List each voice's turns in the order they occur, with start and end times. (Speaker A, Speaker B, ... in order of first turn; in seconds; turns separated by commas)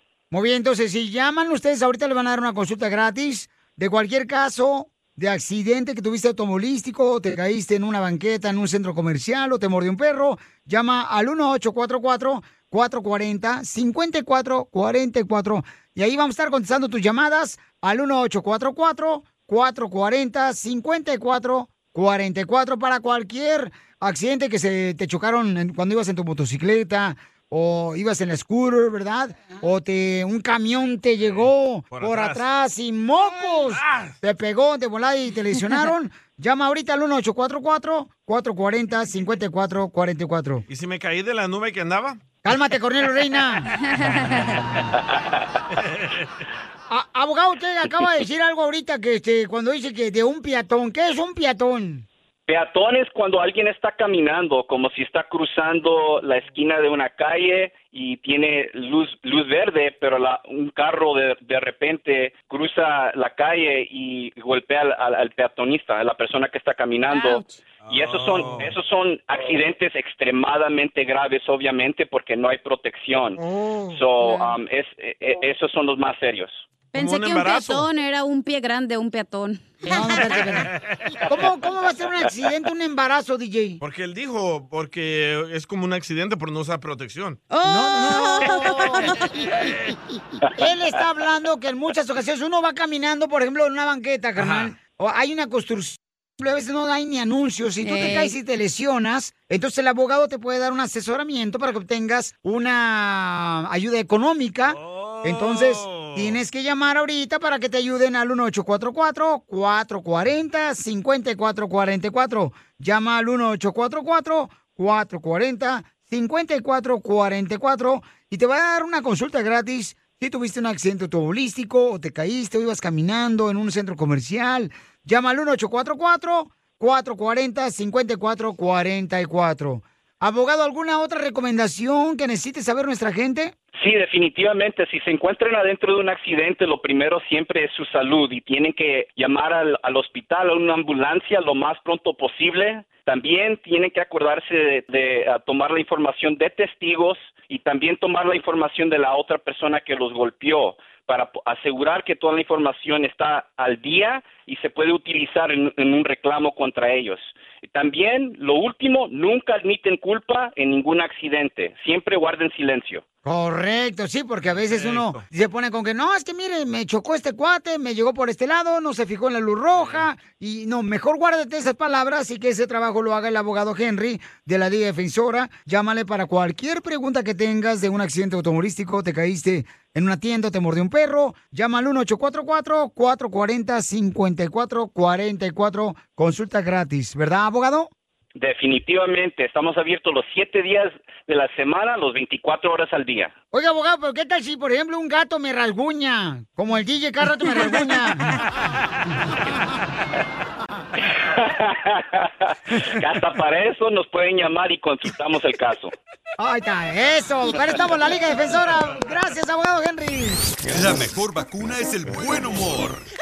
Speaker A: 0.3-40.6, Speaker B: 31.2-32.4, Speaker B: 33.3-34.1, Speaker B: 40.7-42.2, Speaker A: 42.4-43.7, Speaker C: 44.0-44.5, Speaker B: 45.8-46.2, Speaker A: 46.9-52.0, Speaker D: 52.5-73.4, Speaker C: 67.1-67.5, Speaker B: 67.8-68.7, Speaker A: 73.4-74.4, Speaker D: 73.9-76.6, Speaker C: 76.9-80.2, Speaker B: 76.9-77.9, Speaker A: 79.8-80.7, Speaker B: 80.5-81.2, Speaker A: 81.3-83.8, Speaker B: 83.8-87.4, Speaker C: 87.5-89.3, Speaker A: 87.6-89.7, Speaker A: 90.5-133.5, Speaker B: 94.4-94.7, Speaker C: 97.8-98.3, Speaker B: 104.7-106.4, Speaker D: 133.8-163.0, Speaker A: 163.2-187.9, Speaker B: 164.6-165.2, Speaker B: 169.7-170.0, Speaker D: 188.4-193.3, Speaker A: 193.5-198.4, Speaker D: 201.4-205.9, Speaker A: 206.4-210.5, Speaker E: 210.7-213.0